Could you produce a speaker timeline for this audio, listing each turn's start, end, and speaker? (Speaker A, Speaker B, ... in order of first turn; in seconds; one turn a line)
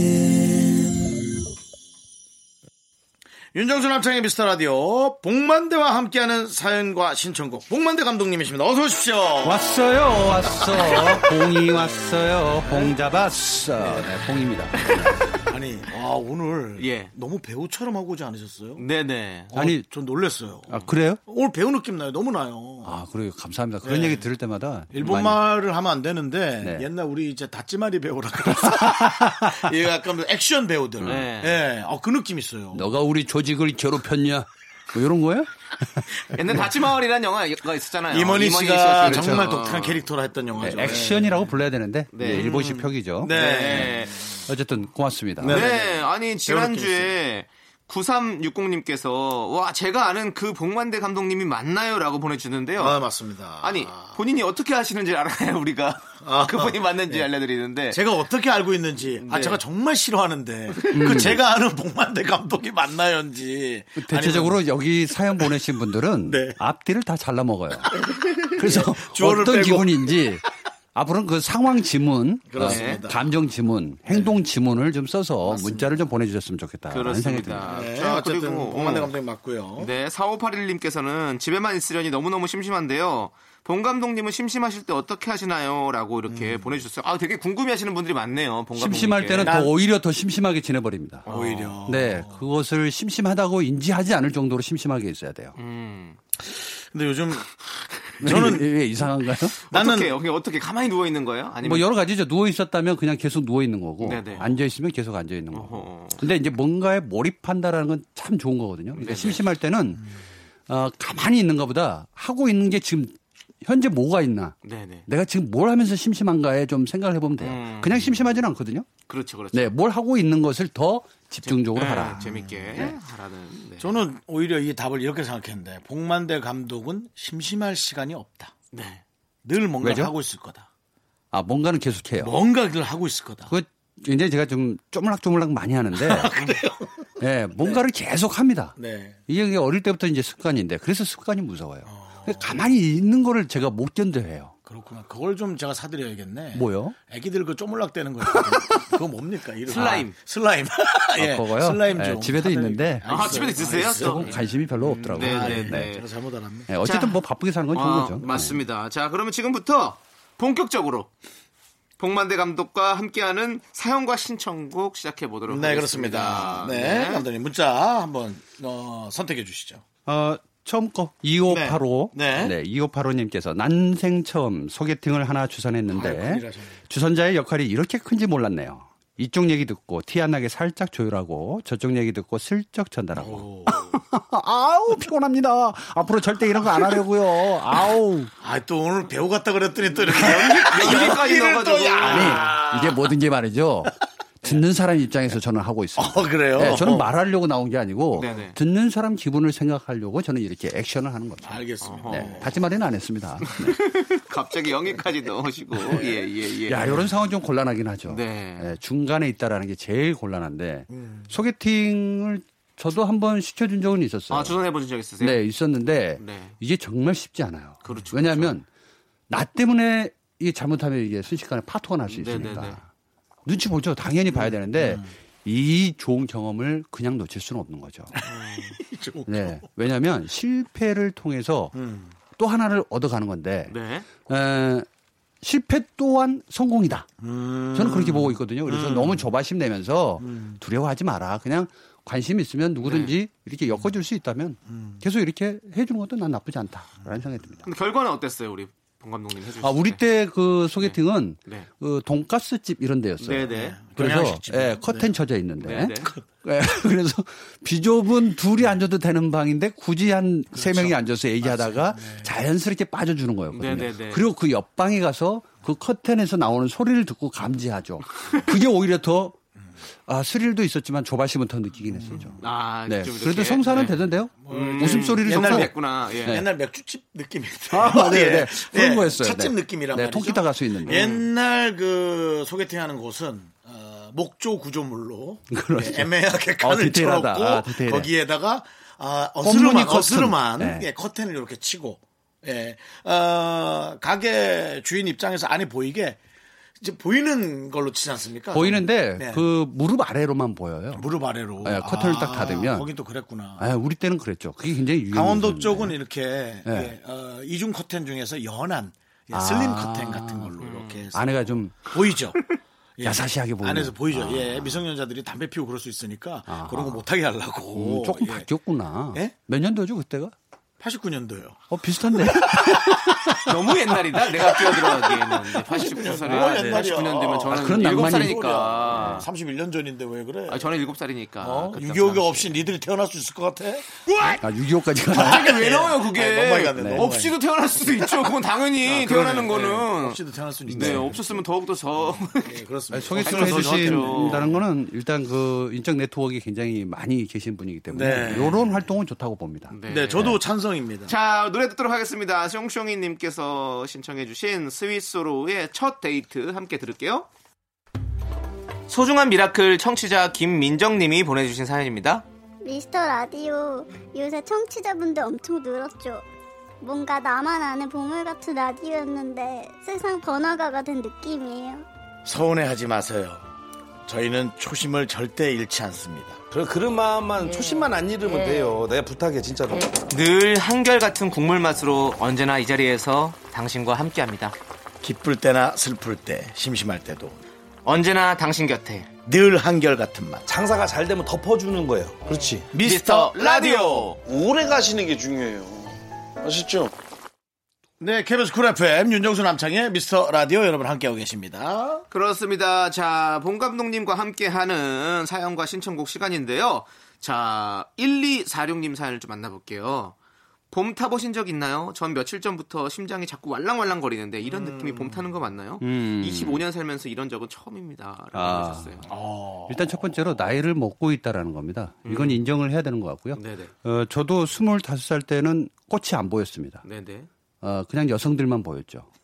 Speaker A: 3.5-9.7
Speaker B: 9.4-15.2
Speaker A: 10.6-12.0
Speaker A: 12.6-12.9
Speaker A: 13.8-14.1
Speaker A: 15.4-18.8
Speaker C: 16.8-17.1
Speaker C: 18.8-19.5
Speaker B: 19.5-19.9
Speaker A: 19.5-23.0
Speaker B: 20.7-21.2
Speaker B: 22.8-25.4
Speaker A: 23.8-24.2
Speaker A: 24.9-32.9
Speaker B: 26.6-26.9
Speaker B: 28.4-29.7
Speaker B: 31.0-31.3
Speaker C: 31.0-31.6
Speaker B: 32.7-36.6
Speaker C: 36.3-40.0
Speaker A: 38.1-41.5
Speaker B: 39.0-39.6
Speaker B: 40.6-45.6
Speaker C: 40.8-41.1
Speaker C: 42.1-42.5
Speaker A: 42.2-44.4
Speaker C: 43.3-44.2
Speaker A: 45.4-47.1
Speaker C: 45.4-53.0
Speaker A: 52.8-54.1
Speaker C: 53.6-58.0
Speaker A: 56.2-57.3
Speaker A: 57.9-64.6
Speaker C: 59.2-59.6
Speaker C: 60.8-61.2
Speaker B: 60.9-61.4
Speaker B: 64.0-67.9
Speaker A: 66.2-66.6
Speaker A: 67.8-70.2
Speaker B: 68.5-77.9
Speaker A: 72.5-73.3
Speaker C: 72.6-73.0
Speaker A: 74.1-74.4
Speaker A: 75.4-76.1
Speaker C: 76.9-79.1
Speaker A: 77.7-79.9
Speaker C: 79.8-89.6
Speaker A: 86.3-86.8
Speaker B: 88.8-91.2
Speaker A: 89.4-89.7
Speaker C: 91.2-91.8
Speaker A: 91.3-92.4
Speaker B: 91.8-95.5
Speaker C: 95.5-96.2
Speaker A: 96.5-97.6
Speaker A: 98.1-98.8
Speaker B: 98.2-99.6
Speaker C: 99.6-101.9
Speaker A: 99.7-100.2
Speaker B: 101.6-110.1
Speaker C: 104.0-104.5
Speaker C: 105.5-106.2
Speaker C: 108.9-109.4
Speaker B: 110.7-118.9
Speaker C: 114.6-115.0
Speaker C: 117.4-118.1
Speaker C: 119.1-119.7
Speaker B: 119.5-122.9
Speaker C: 121.4-124.0
Speaker A: 122.2-122.9
Speaker A: 123.8-128.5
Speaker C: 128.7-129.0
Speaker A: 129.4-130.7
Speaker B: 129.8-130.1
Speaker B: 131.3-132.4
Speaker A: 132.2-133.5
Speaker B: 133.5-136.4
Speaker A: 135.9-137.0
Speaker B: 137.2-138.8
Speaker A: 137.6-137.8
Speaker A: 138.8-139.2
Speaker B: 139.3-144.5
Speaker A: 141.8-142.6
Speaker A: 144.7-156.7
Speaker B: 146.5-147.0
Speaker B: 148.3-148.6
Speaker C: 149.7-150.1
Speaker B: 149.7-150.1
Speaker B: 151.2-155.9
Speaker C: 153.1-156.0
Speaker B: 156.7-158.6
Speaker C: 156.8-157.2
Speaker C: 157.7-161.1
Speaker C: 162.0-167.2
Speaker A: 165.5-169.8
Speaker B: 170.1-188.3
Speaker A: 171.5-172.6
Speaker A: 175.9-176.8
Speaker A: 183.1-183.9
Speaker A: 188.4-193.1
Speaker C: 190.0-192.6
Speaker B: 192.0-203.8
Speaker A: 196.0-197.1
Speaker C: 198.1-198.6
Speaker A: 201.4-202.7
Speaker C: 201.8-202.5
Speaker C: 203.4-207.1
Speaker A: 205.9-206.2
Speaker B: 206.7-214.6
Speaker C: 208.1-208.8
Speaker A: 210.9-211.3
Speaker C: 214.3-215.4
Speaker B: 215.2-218.7
Speaker C: 216.2-216.5
Speaker C: 217.8-218.5
Speaker B: 219.3-222.8
Speaker C: 222.1-222.8
Speaker B: 223.4-228.2
Speaker A: 224.3-225.1
Speaker A: 228.2-229.6
Speaker C: 228.3-228.8
Speaker B: 229.3-231.8
Speaker A: 231.7-232.2
Speaker B: 232.3-234.9
Speaker C: 233.7-234.1
Speaker B: 235.4-237.1
Speaker A: 237.2-239.3
Speaker B: 237.7-247.7
Speaker A: 240.2-240.6
Speaker C: 242.8-243.1
Speaker A: 244.7-245.0
Speaker C: 247.6-250.0
Speaker B: 249.6-269.4
Speaker C: 250.8-251.7
Speaker C: 253.2-253.8
Speaker A: 253.5-255.1
Speaker C: 255.6-256.1
Speaker A: 260.5-262.3
Speaker C: 263.5-264.2
Speaker B: 270.1-276.5
Speaker A: 271.8-272.4
Speaker C: 272.1-276.4
Speaker A: 273.9-296.2
Speaker B: 277.7-281.1
Speaker C: 280.9-281.2
Speaker B: 285.5-288.1
Speaker B: 289.4-290.9
Speaker A: 296.8-299.4
Speaker B: 298.5-301.1
Speaker A: 300.9-303.7
Speaker B: 301.6-302.9
Speaker B: 303.6-306.0
Speaker A: 305.1-312.4
Speaker B: 306.6-306.9
Speaker B: 309.3-310.6
Speaker C: 310.6-311.1
Speaker B: 311.1-311.9
Speaker A: 313.0-318.5
Speaker B: 313.0-314.8
Speaker B: 316.5-317.0
Speaker B: 317.7-320.3
Speaker A: 320.8-323.4
Speaker B: 321.7-323.5
Speaker C: 323.4-329.3
Speaker A: 324.2-330.8
Speaker B: 326.3-326.9
Speaker B: 327.5-329.2
Speaker C: 330.5-332.5
Speaker A: 331.4-334.3
Speaker C: 334.1-334.4
Speaker B: 334.4-335.6
Speaker A: 335.1-337.4
Speaker C: 335.1-342.6
Speaker B: 336.8-337.1
Speaker A: 338.0-338.3
Speaker A: 338.8-341.4
Speaker B: 340.8-341.1
Speaker A: 342.3-344.6
Speaker B: 342.9-350.4
Speaker C: 343.2-344.6
Speaker A: 347.9-348.9
Speaker C: 349.7-350.4
Speaker A: 349.9-351.1
Speaker C: 351.1-357.3
Speaker C: 358.9-362.2
Speaker D: 362.6-366.2
Speaker D: 366.8-371.9
Speaker A: 372.2-373.5
Speaker A: 374.1-376.4
Speaker E: 376.5-380.0
Speaker C: 380.1-384.5
Speaker A: 385.0-387.4
Speaker C: 387.8-389.1
Speaker A: 389.2-390.5
Speaker E: 390.5-392.7
Speaker A: 392.6-394.1
Speaker C: 392.8-394.2
Speaker E: 394.2-396.9
Speaker A: 398.0-402.0
Speaker C: 402.1-410.1
Speaker C: 410.7-419.1
Speaker A: 414.4-415.3
Speaker B: 415.8-416.6
Speaker B: 418.3-419.0
Speaker A: 419.0-420.4
Speaker B: 419.7-426.8
Speaker C: 422.0-422.4
Speaker C: 423.4-423.7
Speaker C: 426.8-427.3
Speaker B: 427.6-429.1